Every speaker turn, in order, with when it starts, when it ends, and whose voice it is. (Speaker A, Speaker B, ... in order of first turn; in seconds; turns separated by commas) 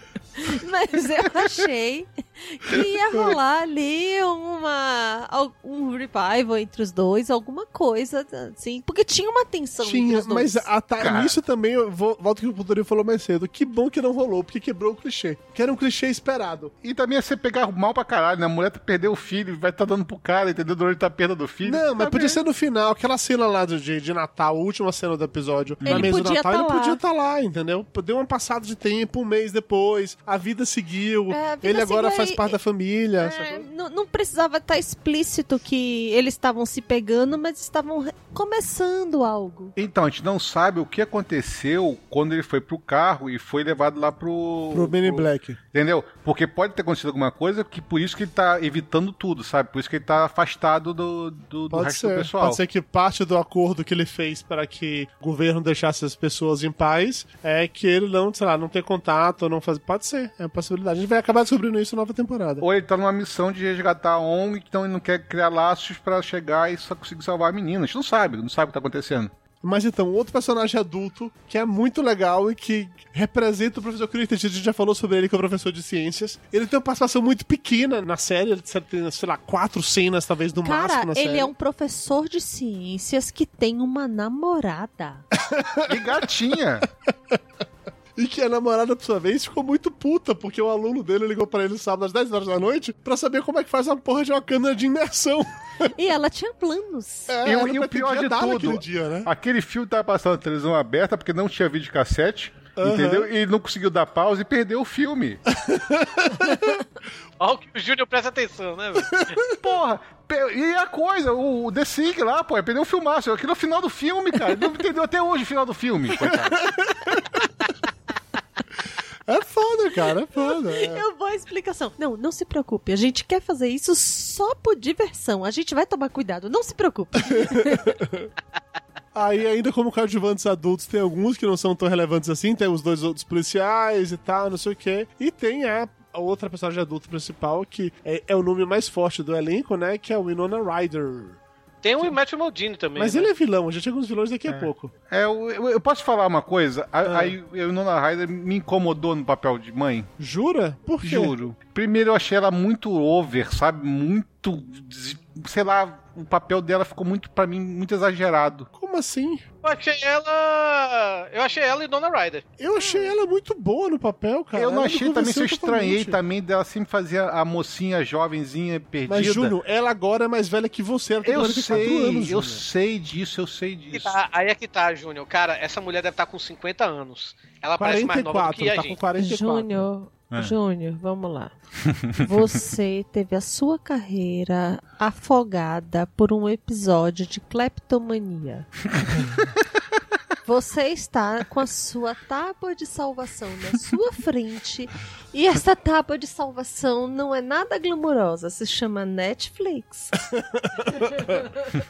Speaker A: 0.4-10.7, Speaker B: 9.8-16.7, Speaker C: 11.0-11.3, Speaker C: 16.8-22.4, Speaker B: 21.6-33.6, Speaker C: 25.8-26.1, Speaker A: 25.8-27.0, Speaker A: 31.3-32.6, Speaker A: 33.2-39.8, Speaker C: 39.8-52.6, Speaker B: 44.7-45.6, Speaker B: 51.7-62.6, Speaker C: 62.6-69.3, Speaker B: 69.6-81.5, Speaker A: 80.6-85.2, Speaker B: 85.3-86.3, Speaker C: 85.8-86.9, Speaker B: 88.2-95.9, Speaker A: 95.9-97.4, Speaker B: 97.3-99.3, Speaker C: 97.4-105.4, Speaker B: 102.8-103.3, Speaker B: 105.5-106.8, Speaker D: 107.4-109.3, Speaker B: 109.1-109.4, Speaker C: 109.5-117.2, Speaker B: 116.2-117.3, Speaker B: 119.3-121.0, Speaker A: 120.4-127.9, Speaker B: 127.2-128.3, Speaker B: 129.1-141.4, Speaker D: 141.8-143.3, Speaker B: 142.9-144.9, Speaker C: 144.5-150.1, Speaker B: 147.0-147.3, Speaker B: 150.2-151.3, Speaker C: 151.0-158.7, Speaker B: 158.7-159.4, Speaker D: 159.6-162.4, Speaker B: 162.6-166.2, Speaker C: 164.6-169.5, Speaker B: 169.1-172.6, Speaker C: 171.2-174.1, Speaker D: 173.9-179.0, Speaker B: 177.8-179.8, Speaker A: 179.2-181.5, Speaker C: 182.0-182.3, Speaker A: 182.2-188.7, Speaker C: 189.0-189.5, Speaker A: 190.4-200.1, Speaker B: 200.2-201.5